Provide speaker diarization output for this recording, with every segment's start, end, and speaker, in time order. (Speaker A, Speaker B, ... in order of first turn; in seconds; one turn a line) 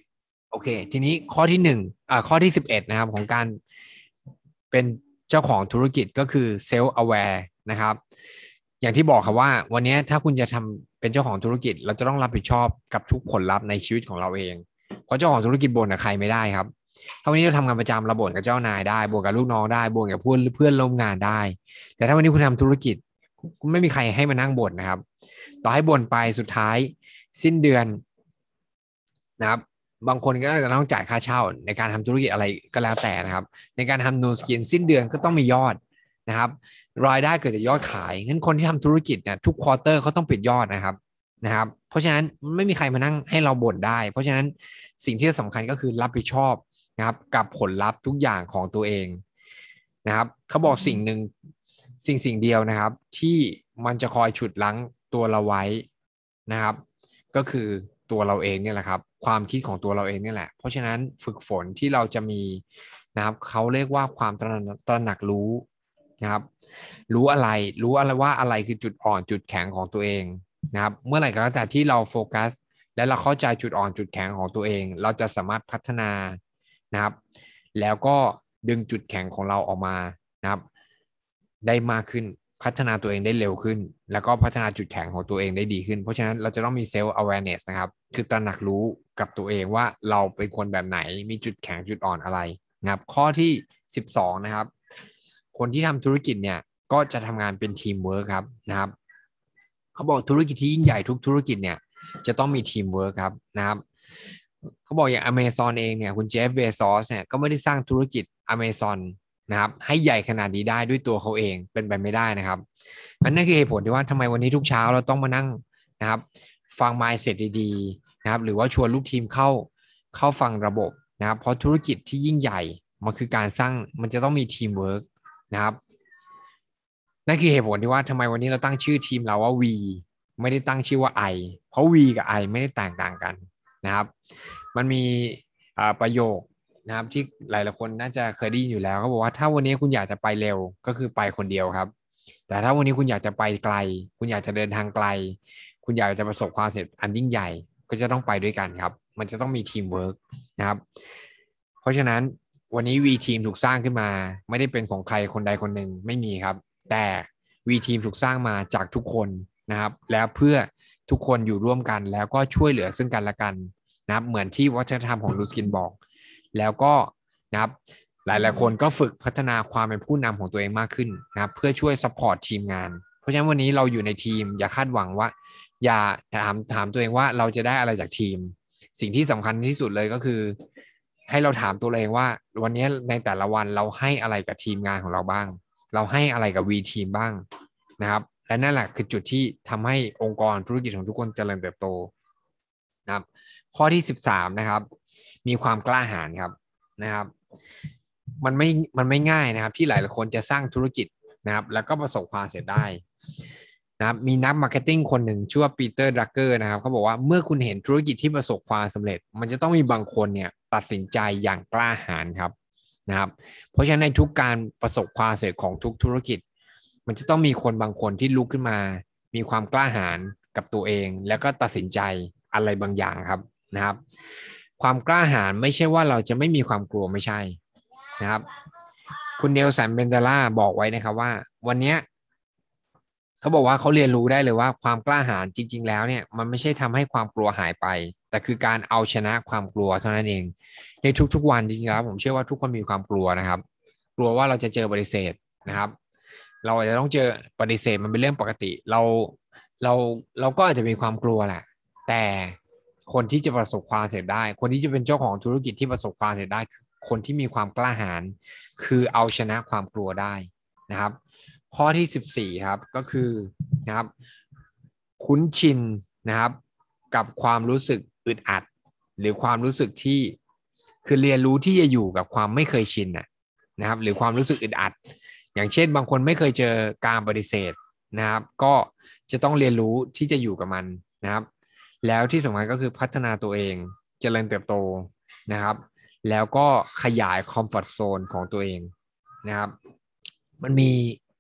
Speaker A: 0.5-3.6
Speaker A: 4.7-8.0
Speaker A: 8.8-16.7
Speaker A: 17.2-25.0
Speaker A: 25.6-28.0
Speaker A: 29.4-49.2
Speaker A: 50.0-51.3
Speaker A: 52.0-55.9
Speaker A: 56.5-56.8
Speaker A: 57.3-62.6
Speaker A: 63.1-65.7
Speaker A: 66.2-66.5
Speaker A: 67.1-76.4
Speaker A: 77.8-80.6
Speaker A: 81.6-94.7
Speaker A: 95.5-98.9
Speaker A: 100.0-103.8
Speaker A: 104.9-112.6
Speaker A: 113.2-125.8
Speaker A: 127.3-134.1
Speaker A: 134.7-141.9
Speaker A: 142.5-150.8
Speaker A: 151.8-166.0
Speaker A: 166.5-180.6
Speaker A: 181.3-187.4
Speaker A: 188.0-192.1
Speaker A: 193.1-194.9
Speaker A: 195.4-197.3
Speaker A: 198.4-203.0
Speaker A: 204.0-212.5
Speaker A: 213.1-216.4
Speaker A: 217.1-224.0
Speaker A: 224.8-227.6
Speaker A: 228.2-228.5
Speaker A: 229.4-232.0
Speaker A: 233.4-243.6
Speaker A: 244.2-245.9
Speaker A: 246.6-261.2
Speaker A: 261.7-264.1
Speaker A: 265.2-266.6
Speaker A: 267.1-270.4
Speaker A: 271.0-273.3
Speaker A: 273.8-275.0
Speaker A: 275.6-281.5
Speaker A: 282.0-288.9
Speaker A: 289.4-289.8
Speaker A: 290.6-291.2